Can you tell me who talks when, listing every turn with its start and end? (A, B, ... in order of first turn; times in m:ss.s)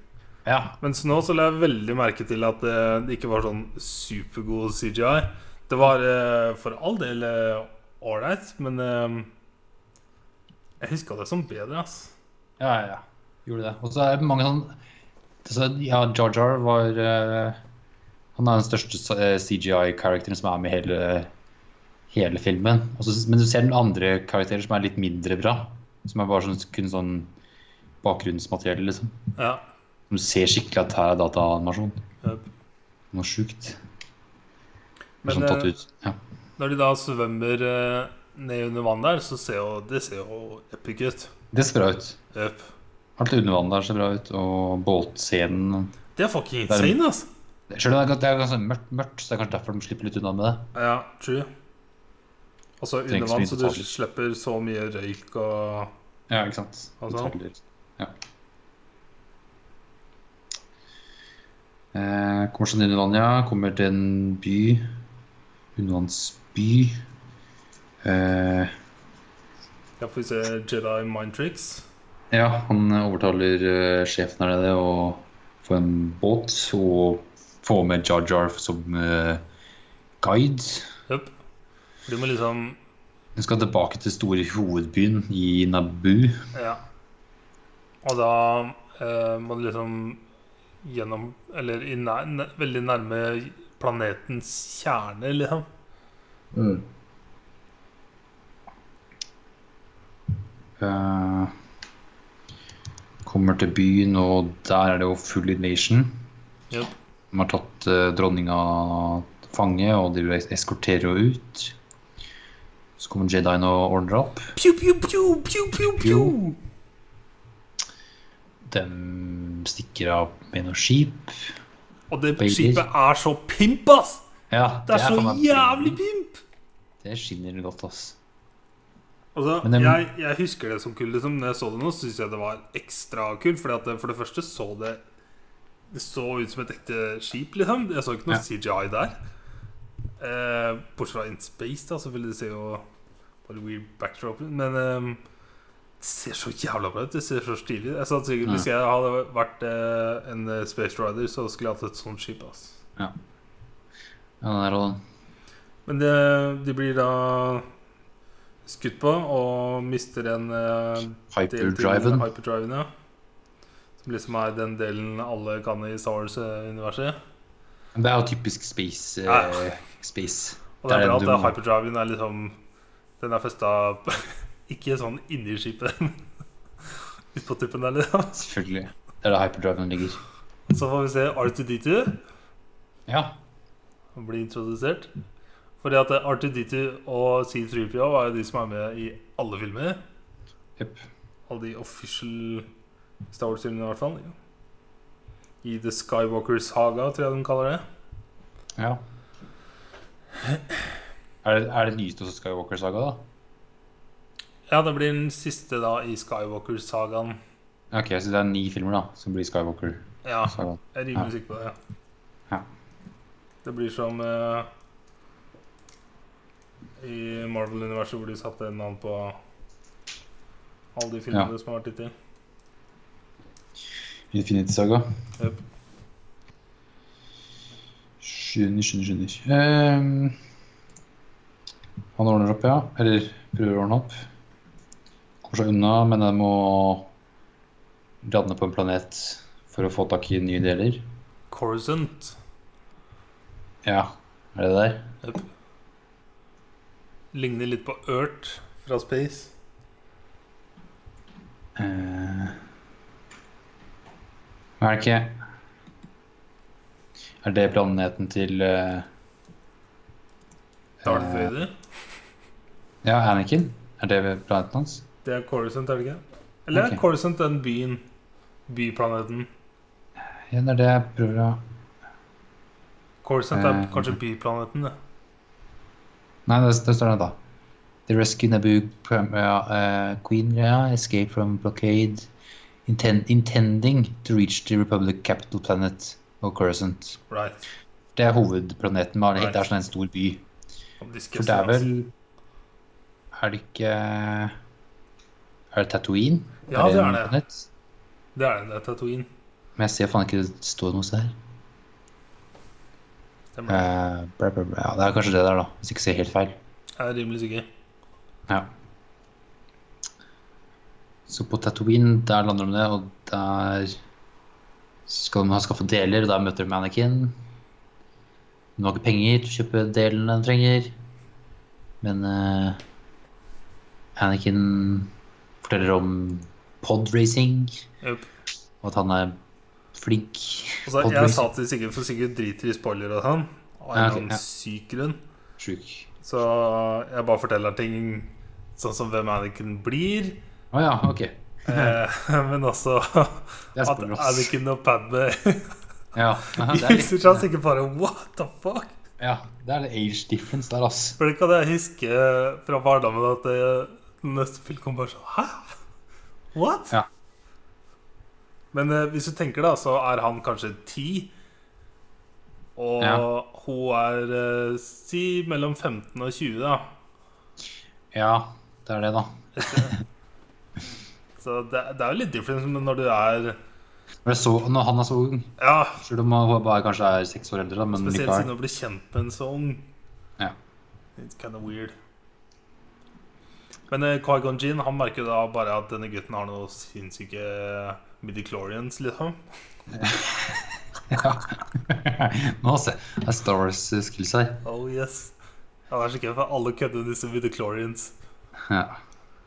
0:00.4-0:00.8 A
0:00.8-0:09.3 B
0:10.8-0:12.1 B
0:12.6-0:14.8 A
0:15.4-0:17.6 A
0:18.4-0:21.3 A
0:22.1-0:27.3 A
0:28.0-0:29.2 A
0:29.4-0:29.6 B
0:30.1-0:32.0 A
0:33.1-0:33.8 A
0:35.2-0:35.7 B
0:35.2-0:36.2 A
0:36.6-0:41.3 B
0:41.5-0:42.2 A
0:42.3-0:42.7 B
0:43.2-0:45.9 A
0:46.2-0:47.3 B
0:46.7-0:47.0 A
0:47.7-0:50.7 A
0:50.8-0:51.5 B
0:52.8-0:55.9 B
0:53.1-0:53.9 A
0:56.3-0:58.1 A
0:57.0-0:57.4 B
1:01.9-1:04.9 A
1:05.8-1:07.0 A
1:08.0-1:08.7 A
1:10.0-1:11.8 B
1:12.3-1:19.4 A
1:20.2-1:20.9 A
1:22.1-1:22.8 B
1:23.4-1:26.4 A
1:26.5-1:26.8 B
1:28.0-1:30.2 B
1:30.8-1:35.7 B
1:36.5-1:36.8 A
1:40.8-1:41.5 A
1:43.2-1:46.2 A
1:47.3-1:51.8 A
1:53.0-1:54.5 A
1:54.6-1:56.6 B
1:56.0-1:56.4 A
1:58.6-2:01.5 A
2:02.1-2:04.2 B
2:02.4-2:02.8 A
2:04.5-2:06.0 A
2:04.9-2:06.4 B
2:07.0-2:08.2 A
2:09.4-2:15.0 B
2:09.6-2:10.0 A
2:15.9-2:19.2 B
2:20.2-2:22.8 B
2:23.4-2:25.2 B
2:26.0-2:32.8 B
2:34.4-2:35.0 A
2:35.9-2:37.6 B
2:38.6-2:42.9 B
2:41.3-2:42.3 A
2:44.0-2:47.2 B
2:47.9-2:51.6 A
2:49.2-2:49.6 B
2:50.8-2:52.6 B
2:53.2-2:56.2 B
2:57.3-2:58.4 B
2:58.3-3:00.2 A
3:00.7-3:02.2 B
3:03.1-3:03.4 A
3:04.1-3:05.1 B
3:05.8-3:10.0 B
3:10.8-3:11.0 A
3:11.5-3:12.7 B
3:13.3-3:14.4 B
3:15.6-3:17.8 B
3:18.8-3:19.0 A
3:21.4-3:23.2 A
3:24.7-3:27.4 B
3:27.9-3:31.3 A
3:30.2-3:31.8 B
3:33.6-3:34.7 B
3:37.0-3:39.4 B
3:40.9-3:42.1 B
3:44.3-3:45.1 A
3:48.2-3:50.4 A
3:52.2-3:54.2 A
3:55.4-3:57.1 A
3:58.2-4:01.0 A
4:01.5-4:02.4 B
4:03.8-4:05.1 A
4:07.3-4:09.5 B
4:11.8-4:12.6 A
4:14.8-4:15.4 A
4:17.4-4:19.1 A
4:21.0-4:21.5 A
4:21.0-4:21.7 B
4:23.0-4:25.0 A
4:25.2-4:28.0 B
4:26.7-4:27.0 A
4:28.7-4:29.5 B
4:30.5-4:31.6 A
4:33.2-4:34.9 B
4:33.5-4:34.2 A
4:36.4-4:37.4 A
4:38.1-4:42.3 A
4:42.9-4:47.2 A
4:47.3-4:47.6 B
4:48.2-4:50.4 A
4:51.0-4:51.9 B
4:51.4-4:52.1 A
4:53.3-4:54.6 A
4:55.7-4:57.7 A
4:56.7-4:57.4 B
4:58.4-4:59.3 B
4:59.8-5:01.4 A
5:03.6-5:03.9 B
5:03.7-5:06.6 A
5:07.0-5:07.7 B
5:11.3-5:14.0 A
5:15.1-5:17.4 A
5:18.8-5:20.9 A
5:22.0-5:22.8 A
5:24.2-5:25.1 A
5:25.6-5:27.8 A
5:28.8-5:29.4 A
5:29.9-5:31.5 A
5:30.8-5:35.2 B
5:33.9-5:34.4 A
5:35.6-5:36.1 A
5:36.2-5:40.4 B
5:40.7-5:42.0 A
5:41.6-5:45.7 B
5:43.8-5:44.5 A
5:46.1-5:47.5 A
5:46.5-5:48.9 B
5:49.2-5:51.2 A
5:51.2-5:55.8 B
5:56.5-5:57.0 B
5:58.7-6:01.3 B
6:02.8-6:06.9 B
6:03.0-6:03.2 A
6:08.1-6:10.0 A
6:09.6-6:10.0 B
6:11.4-6:13.6 B
6:14.2-6:18.5 A
6:15.6-6:16.0 B
6:17.9-6:19.8 B
6:21.2-6:22.0 B
6:23.9-6:29.4 B
6:29.9-6:34.6 A
6:34.6-6:35.4 B
6:35.9-6:38.1 B
6:38.6-6:39.0 A